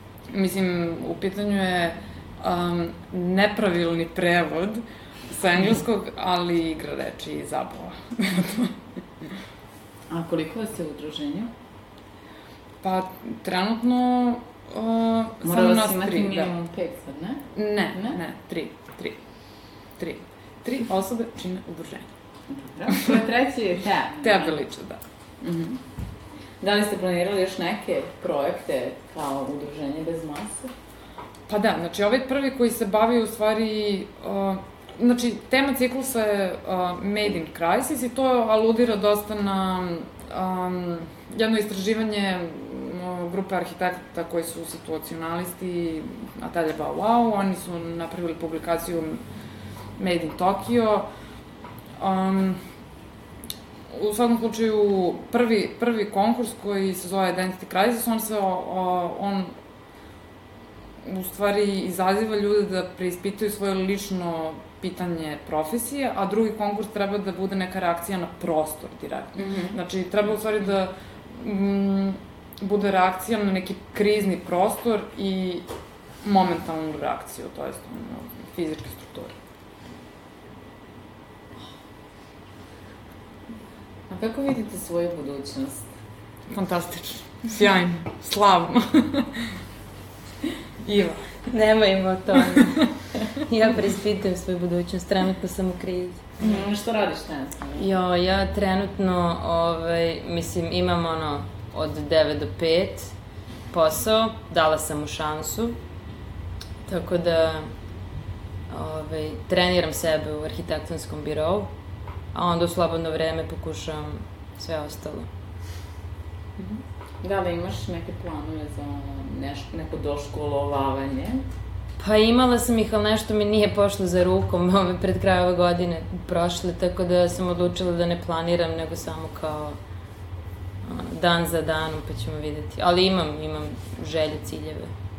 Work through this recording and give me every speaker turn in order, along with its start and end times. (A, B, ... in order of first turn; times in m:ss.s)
0:00.3-0:08.8 A
0:10.1-0:11.5 B
0:12.8-0:16.5 A
0:15.4-0:18.2 B
0:17.5-0:19.2 A
0:20.0-0:22.1 A
0:22.5-0:24.6 B
0:22.9-0:23.2 A
0:24.2-0:25.0 A
0:25.4-0:25.8 B
0:26.6-0:30.7 B
0:31.5-0:49.2 A
0:50.0-0:51.1 A
0:52.0-0:52.6 A
0:53.9-0:59.5 A
1:01.0-1:15.7 A
1:09.4-1:09.8 B
1:16.2-1:19.4 A
1:24.1-1:25.9 B
1:26.5-1:29.5 A
1:30.8-1:31.3 A
1:31.5-1:36.2 C
1:32.4-1:32.6 A
1:36.4-1:37.9 B
1:37.8-1:43.1 C
1:43.7-1:45.8 C
1:46.9-1:47.7 C
1:48.7-1:51.7 C
1:52.3-1:55.3 C
1:56.6-2:01.4 B
2:02.0-2:09.8 C
2:10.8-2:14.9 C